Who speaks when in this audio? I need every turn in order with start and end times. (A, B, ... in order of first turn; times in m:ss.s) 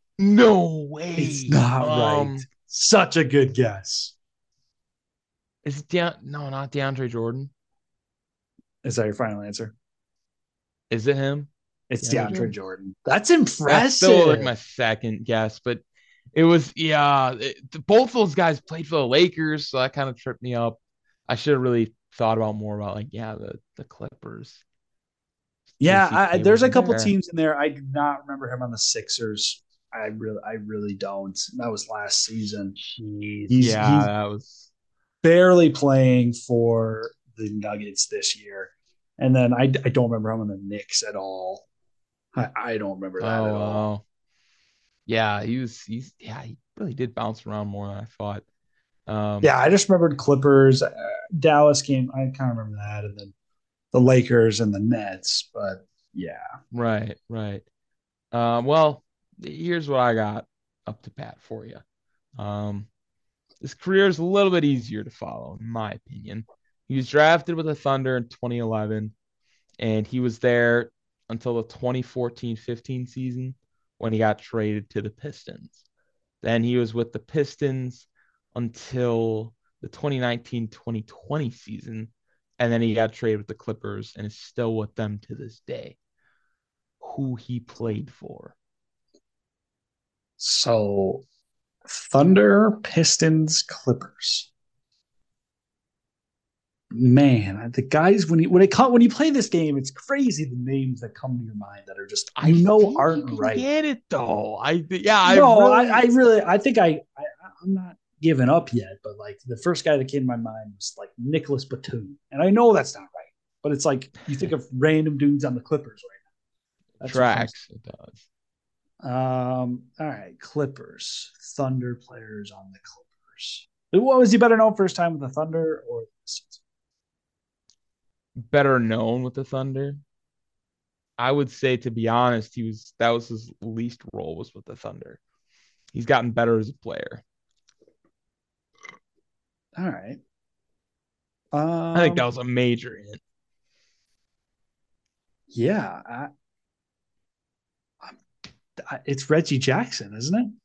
0:00.2-0:02.5 A
0:01.2-0:04.1 B
0:05.6-0:07.5 A
0:08.8-0:09.7 B
0:10.9-0:11.5 A
0:11.9-0:14.5 B
0:12.0-0:12.5 A
0:13.7-0:24.6 A
0:25.8-0:32.8 B
0:25.8-0:27.1 A
0:32.8-0:34.7 A
0:33.5-0:34.1 B
0:35.2-0:41.7 B
0:42.3-0:43.8 B
0:43.2-0:44.0 A
0:45.0-0:48.4 A
0:49.1-0:49.5 A
0:49.4-0:53.3 B
0:53.9-0:56.5 B
0:56.7-0:57.6 A
0:58.3-1:01.8 A
1:02.4-1:02.9 A
1:03.6-1:09.1 A
1:09.8-1:15.8 A
1:16.4-1:26.0 A
1:27.0-1:28.5 A
1:30.4-1:31.2 B
1:31.8-1:34.5 B
1:36.9-1:43.6 B
1:42.4-1:46.0 A
1:45.2-1:56.2 B
1:57.0-1:58.3 A
1:57.0-1:57.5 B
1:59.0-2:06.6 B
2:08.4-2:10.0 A
2:11.2-2:15.2 A
2:15.9-2:17.2 A
2:19.8-2:20.2 B
2:21.5-2:22.3 B
2:21.9-2:23.2 A
2:25.5-2:26.3 B
2:28.8-2:30.6 B